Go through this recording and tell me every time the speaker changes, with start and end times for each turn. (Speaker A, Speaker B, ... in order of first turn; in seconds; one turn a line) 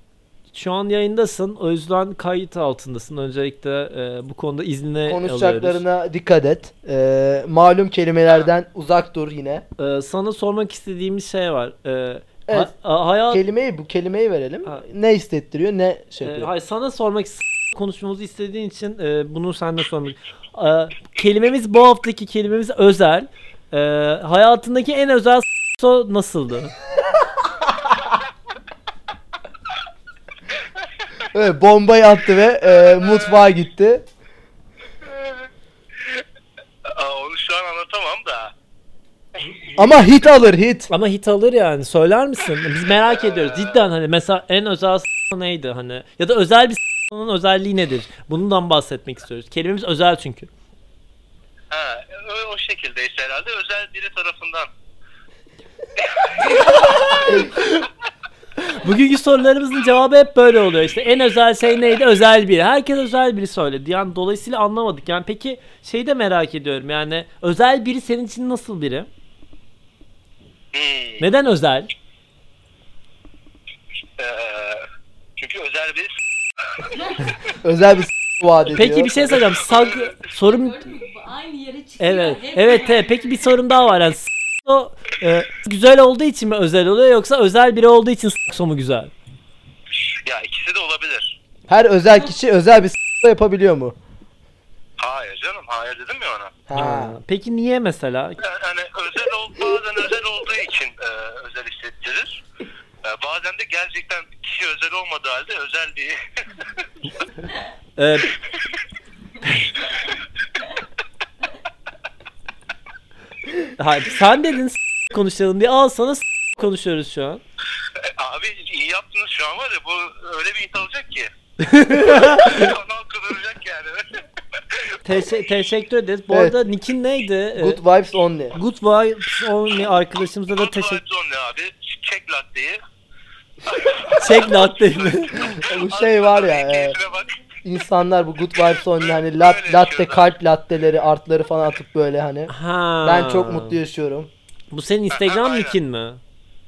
Speaker A: 0.5-5.8
Speaker B: 5.0-9.6
Speaker A: 9.8-13.4
Speaker B: 13.3-16.5
Speaker A: 16.2-26.7
Speaker B: 31.3-34.0
Speaker C: 32.8-33.4
Speaker C: 35.0-35.5
Speaker C: 36.9-38.5
Speaker A: 39.4-40.0
Speaker B: 39.8-40.9
Speaker A: 40.9-50.5
Speaker C: 43.2-43.8
Speaker C: 51.7-54.7
Speaker C: 56.0-57.0
Speaker A: 56.5-57.9
Speaker A: 58.6-69.1
Speaker C: 70.7-71.2
Speaker A: 71.2-71.9
Speaker C: 74.2-74.8
Speaker C: 75.4-76.1
Speaker B: 77.6-79.4
Speaker A: 78.7-80.9
Speaker D: 80.2-83.3
Speaker A: 82.0-89.1
Speaker C: 89.9-91.4
Speaker B: 91.7-94.0
Speaker C: 95.0-96.5
Speaker B: 96.7-97.2
Speaker A: 96.7-98.4
Speaker C: 98.4-102.4
Speaker C: 103.0-106.2
Speaker A: 108.0-108.3
Speaker A: 109.4-109.7
Speaker A: 113.8-117.4
Speaker C: 118.0-121.3
Speaker A: 121.6-122.8
Speaker C: 121.8-125.3
Speaker A: 125.0-127.8
Speaker B: 126.3-126.5
Speaker B: 127.6-128.6
Speaker A: 128.5-131.0
Speaker C: 130.6-132.8
Speaker C: 133.6-137.3
Speaker A: 134.1-135.6
Speaker B: 135.6-137.0
Speaker B: 137.6-142.5
Speaker C: 138.8-140.2
Speaker A: 142.5-143.8
Speaker B: 143.0-144.3
Speaker A: 144.7-146.2
Speaker C: 145.1-145.7